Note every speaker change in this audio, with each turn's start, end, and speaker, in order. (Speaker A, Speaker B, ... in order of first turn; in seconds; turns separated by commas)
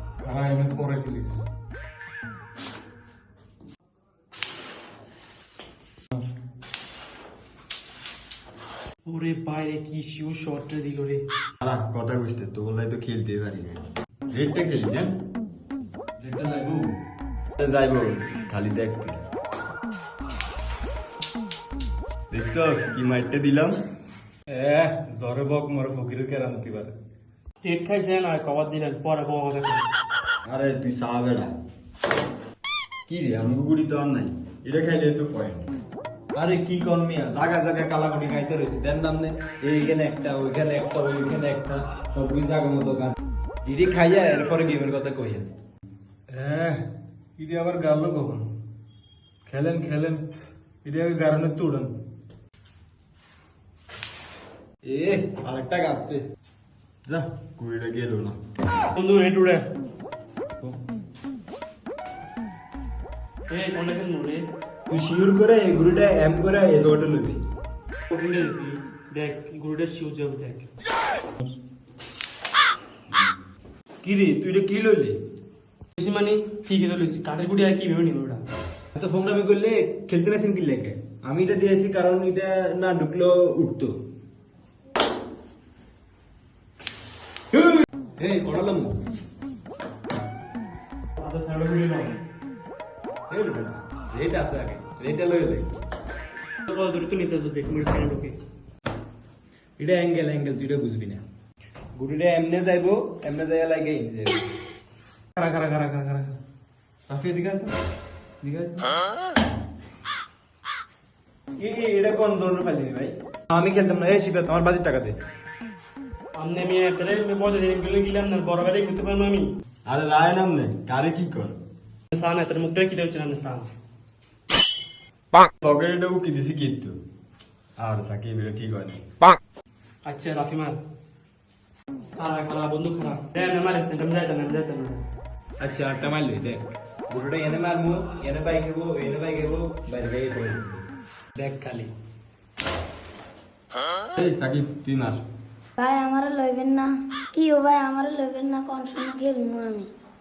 Speaker A: 0.2-1.4, Speaker B: 9.0-11.2, Speaker C: 11.6-15.2, Speaker C: 16.2-16.9, Speaker C: 17.6-19.2, Speaker C: 22.3-23.8, Speaker A: 24.5-26.9, Speaker B: 27.6-29.9, Speaker C: 30.4-31.5, Speaker C: 33.1-35.7, Speaker D: 36.4-45.5, Speaker A: 46.3-46.8, Speaker A: 47.4-48.5, Speaker A: 49.5-50.2, Speaker A: 50.8-51.9, Speaker D: 54.8-56.2, Speaker C: 57.1-58.4, Speaker B: 58.9-59.7, Speaker B: 63.5-64.5, Speaker D: 64.9-67.4, Speaker B: 68.1-70.7, Speaker D: 74.0-75.2, Speaker B: 76.0-78.4, Speaker D: 78.9-84.0, Speaker D: 87.5-89.0, Speaker B: 91.2-92.2, Speaker D: 93.3-95.7, Speaker B: 96.7-98.4, Speaker D: 99.8-101.2, Speaker D: 101.9-104.5, Speaker B: 105.3-106.4, Speaker D: 107.1-107.7, Speaker D: 108.4-109.0, Speaker D: 111.6-115.2, Speaker B: 116.3-119.5, Speaker C: 119.8-121.5, Speaker B: 122.1-123.7, Speaker C: 125.6-127.0, Speaker C: 127.8-129.0, Speaker B: 130.0-130.8, Speaker B: 132.2-135.0, Speaker D: 135.6-140.8, Speaker D: 141.3-141.9, Speaker C: 144.1-145.2, Speaker E: 145.8-146.9, Speaker E: 147.6-149.9